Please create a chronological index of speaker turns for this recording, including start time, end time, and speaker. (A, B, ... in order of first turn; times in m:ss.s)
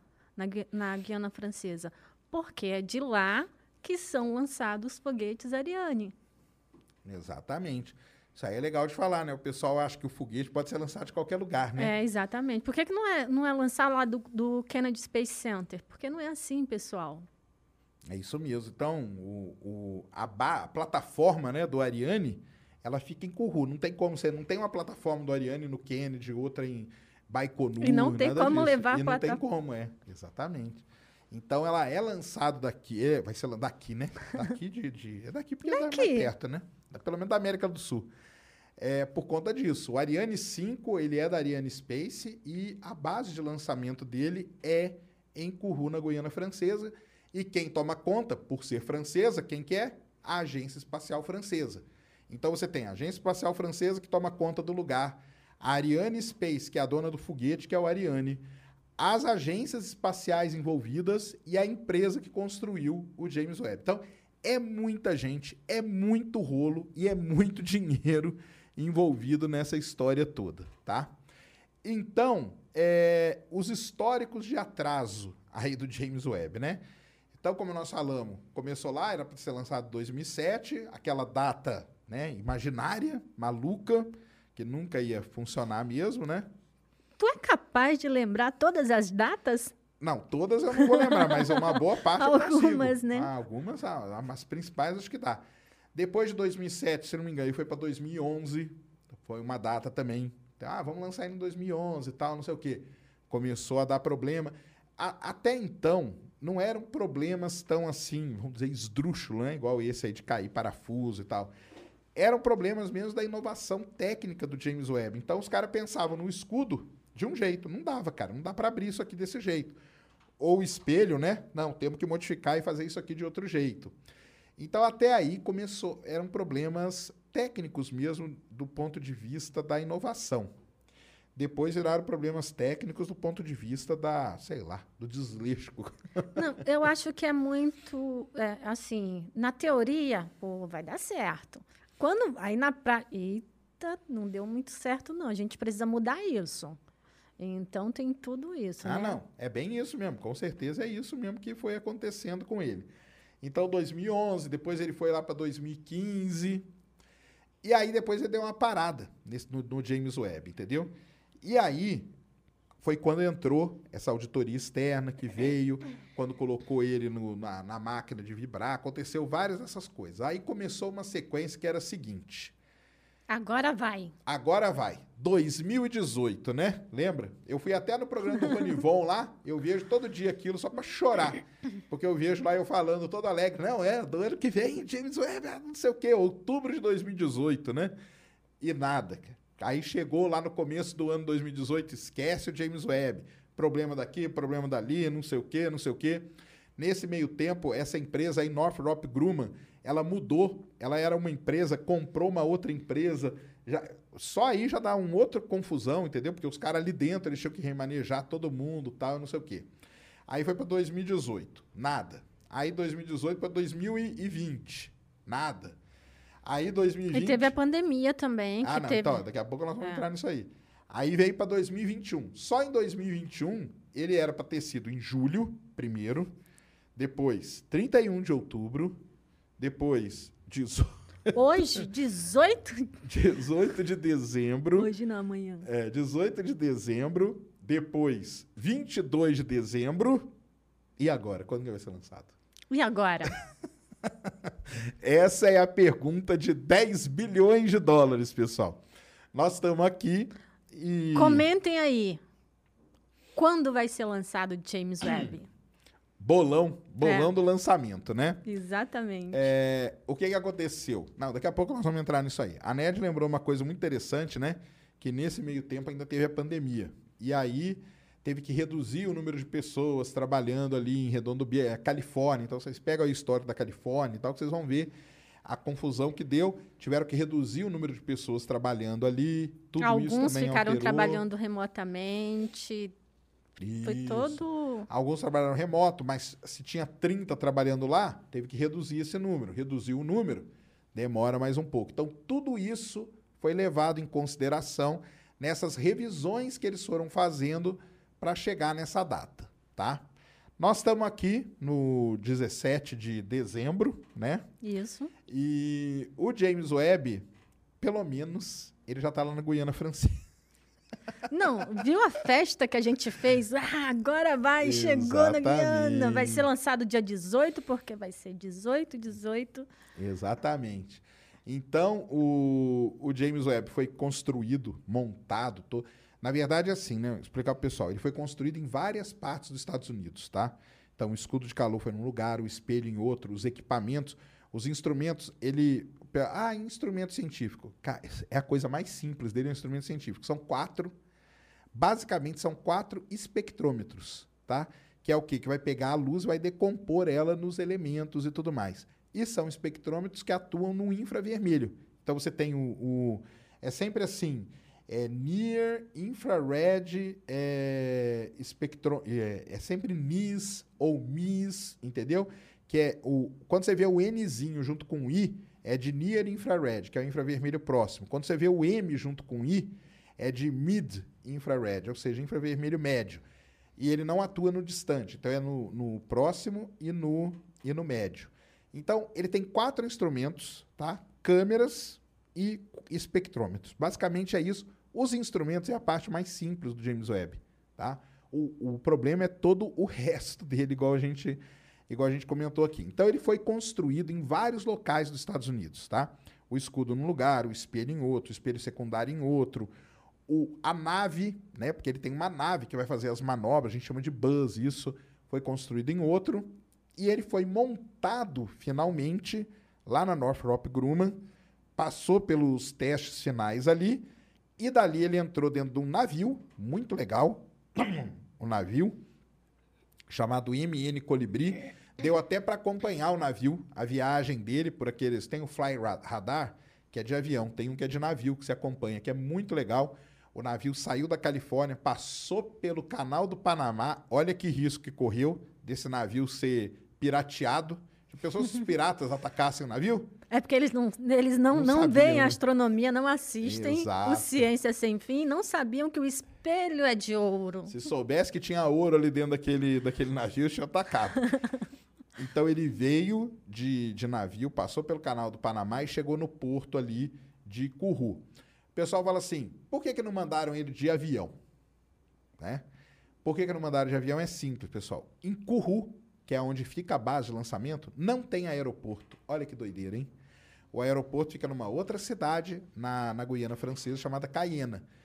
0:00.4-0:06.1 A
0:07.0-0:11.9 B
0:11.8-0:17.3 A
0:18.1-0:38.1 B
0:27.8-0:29.4 A
0:35.7-0:36.3 A
0:38.8-0:58.4 B
0:59.0-1:11.1 B
1:11.8-1:16.8 B
1:17.4-1:26.5 B
1:27.2-1:29.7 A
1:30.0-1:51.5 B
1:30.8-1:33.3 A
1:52.1-1:59.8 B
2:00.4-2:04.0 B
2:04.6-2:10.5 B
2:11.3-2:16.5 B
2:16.3-2:26.8 A
2:27.4-2:29.2 A
2:28.8-2:36.7 B
2:37.6-2:42.1 B
2:42.8-2:52.5 B
2:53.3-2:54.1 A
2:54.2-3:07.9 B
3:08.6-3:29.7 B
3:30.3-3:35.8 B
3:36.4-3:37.5 B
3:37.1-3:39.2 A
3:38.6-3:46.3 B
3:47.0-3:49.0 B
3:49.6-3:51.8 B
3:51.3-3:52.9 A
3:53.0-3:54.9 B
3:54.8-3:55.7 A
3:55.6-4:00.3 B
4:01.0-4:02.3 B
4:02.7-4:03.3 A
4:04.0-4:08.8 B
4:09.3-4:11.5 B
4:11.1-4:12.2 A
4:13.3-4:15.5 A
4:15.0-4:15.3 B
4:16.2-4:18.4 B
4:17.0-4:17.3 A
4:18.4-4:19.4 A
4:19.3-4:34.9 B
4:35.4-4:41.2 B
4:39.8-4:42.9 A
4:43.6-5:00.0 B
4:43.8-4:44.9 A
5:00.6-5:04.4 B
5:04.6-5:05.1 A
5:05.3-5:07.2 B
5:07.8-5:10.2 B
5:11.3-5:19.7 A
5:14.6-5:16.4 B
5:20.0-5:40.9 B
5:41.7-6:13.2 B
6:13.8-6:39.7 B
6:40.3-6:51.2 B
6:51.8-6:59.0 B
7:00.1-7:20.1 B
7:20.3-7:27.7 A
7:21.5-7:22.4 B
7:23.4-7:24.5 B
7:27.7-7:31.3 B
7:32.2-7:41.4 B
7:42.4-7:42.6 B
7:43.2-7:50.1 B
7:50.7-7:54.8 B